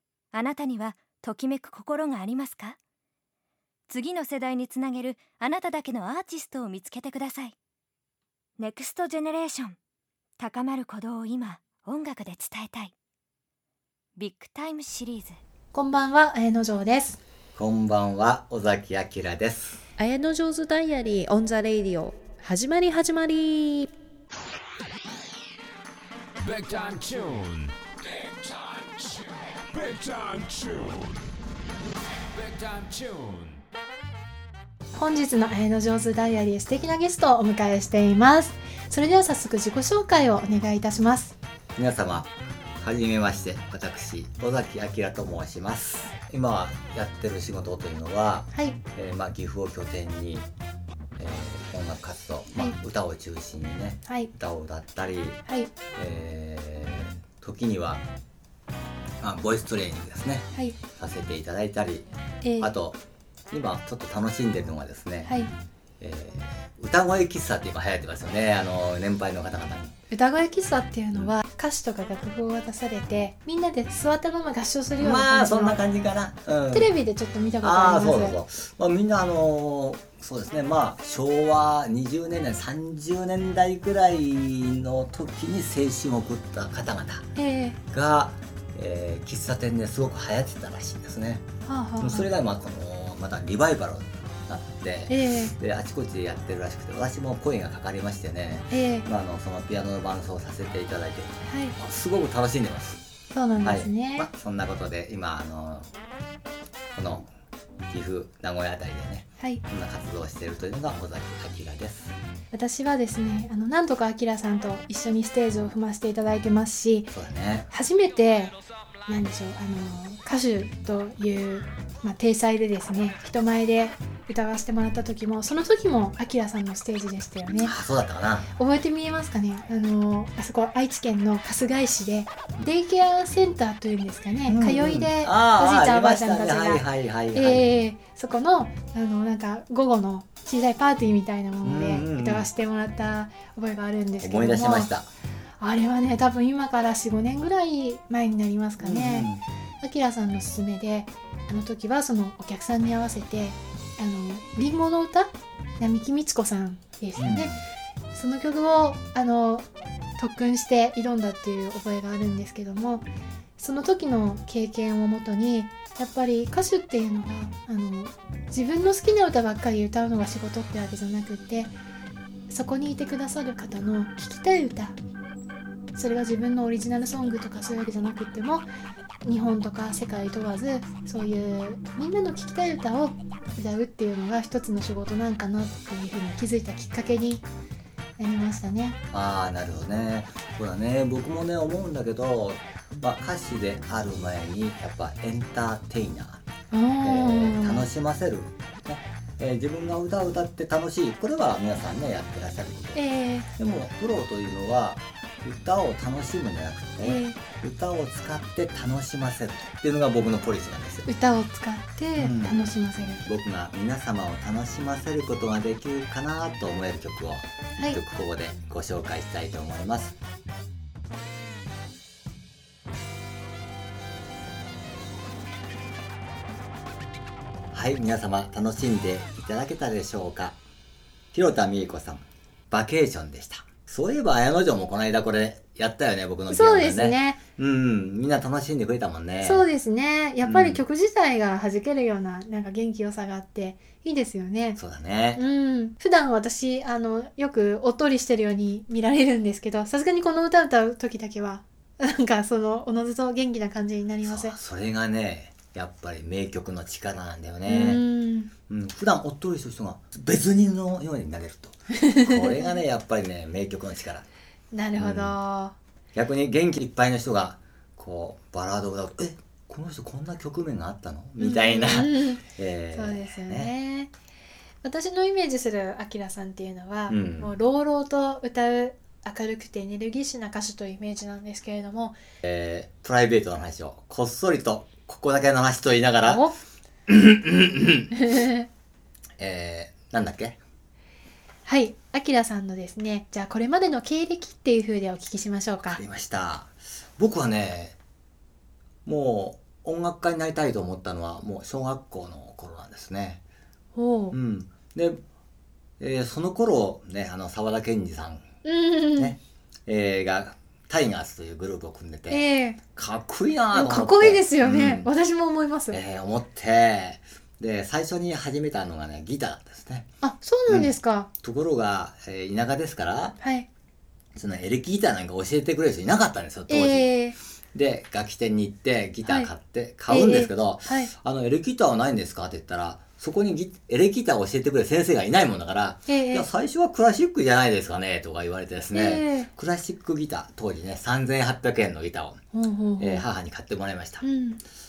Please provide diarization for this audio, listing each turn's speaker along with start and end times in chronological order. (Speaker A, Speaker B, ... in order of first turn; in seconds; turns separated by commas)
Speaker A: 0.3-2.8, Speaker A: 3.9-7.5, Speaker A: 8.6-9.8, Speaker A: 10.4-12.9, Speaker A: 14.2-15.4, Speaker B: 15.7-17.2, Speaker C: 17.6-19.8, Speaker B: 20.0-23.9, Speaker D: 26.4-31.2, Speaker D: 32.4-33.6, Speaker B: 34.9-41.4, Speaker C: 41.8-50.5, Speaker B: 48.5-48.8, Speaker C: 51.2-55.4, Speaker C: 56.0-58.0, Speaker C: 59.2-62.1, Speaker B: 62.4-62.7, Speaker C: 62.6-65.4, Speaker B: 65.2-65.5, Speaker C: 66.0-69.9, Speaker B: 70.1-75.8, Speaker C: 75.0-76.9, Speaker B: 76.7-78.4, Speaker C: 77.6-87.3, Speaker B: 87.4-87.8, Speaker C: 87.9-91.4, Speaker B: 91.7-92.3, Speaker C: 92.0-103.0, Speaker B: 95.1-95.6, Speaker B: 98.7-99.1, Speaker B: 101.5-101.8, Speaker B: 103.3-104.3, Speaker C: 103.6-105.9, Speaker C: 106.9-107.3, Speaker C: 107.9-112.2, Speaker B: 109.4-109.6, Speaker B: 112.5-117.1, Speaker C: 117.1-117.7, Speaker B: 117.7-127.7, Speaker C: 127.6-128.5, Speaker B: 128.6-144.9, Speaker C: 134.5-137.7, Speaker C: 141.6-142.5, Speaker C: 144.2-145.1, Speaker B: 145.6-149.3, Speaker C: 148.8-149.4, Speaker B: 149.8-157.6, Speaker C: 157.2-157.6, Speaker B: 158.1-171.7, Speaker B: 172.5-175.0, Speaker B: 175.9-178.7, Speaker B: 179.2-187.5, Speaker B: 188.2-189.0, Speaker C: 189.1-196.4, Speaker B: 196.7-197.9, Speaker C: 197.0-203.0, Speaker B: 202.9-203.5, Speaker C: 203.6-211.1, Speaker B: 207.0-207.4, Speaker B: 211.1-213.3, Speaker C: 212.2-212.6, Speaker C: 213.2-220.2, Speaker C: 227.7-230.6, Speaker C: 231.3-239.7, Speaker B: 236.5-237.4, Speaker B: 239.4-244.8, Speaker C: 240.4-240.8, Speaker C: 244.8-245.4, Speaker B: 245.3-254.6, Speaker C: 254.2-258.1, Speaker B: 257.6-258.5, Speaker C: 258.7-264.2, Speaker B: 261.9-262.7, Speaker B: 264.7-265.8, Speaker C: 265.0-265.4, Speaker C: 266.1-273.7, Speaker B: 271.4-274.1, Speaker B: 274.8-282.2, Speaker C: 277.1-277.5, Speaker C: 282.4-286.5, Speaker B: 286.2-286.6, Speaker C: 287.1-288.1, Speaker B: 288.2-288.7, Speaker C: 289.4-290.6, Speaker B: 291.6-296.0, Speaker C: 295.9-298.0, Speaker C: 299.1-303.4, Speaker B: 303.9-304.4, Speaker C: 304.3-305.2, Speaker C: 306.0-308.4, Speaker B: 308.6-309.4, Speaker C: 309.2-315.1, Speaker B: 312.3-312.8, Speaker B: 313.7-316.0, Speaker C: 315.9-320.1, Speaker B: 320.2-321.3, Speaker C: 320.7-323.4, Speaker B: 323.4-323.7, Speaker C: 324.4-327.1, Speaker B: 326.7-327.4, Speaker C: 327.7-342.4, Speaker B: 329.2-329.5, Speaker B: 330.1-331.1, Speaker B: 336.1-336.5, Speaker B: 338.9-339.5, Speaker B: 342.5-343.3, Speaker C: 343.0-344.2, Speaker B: 344.2-344.6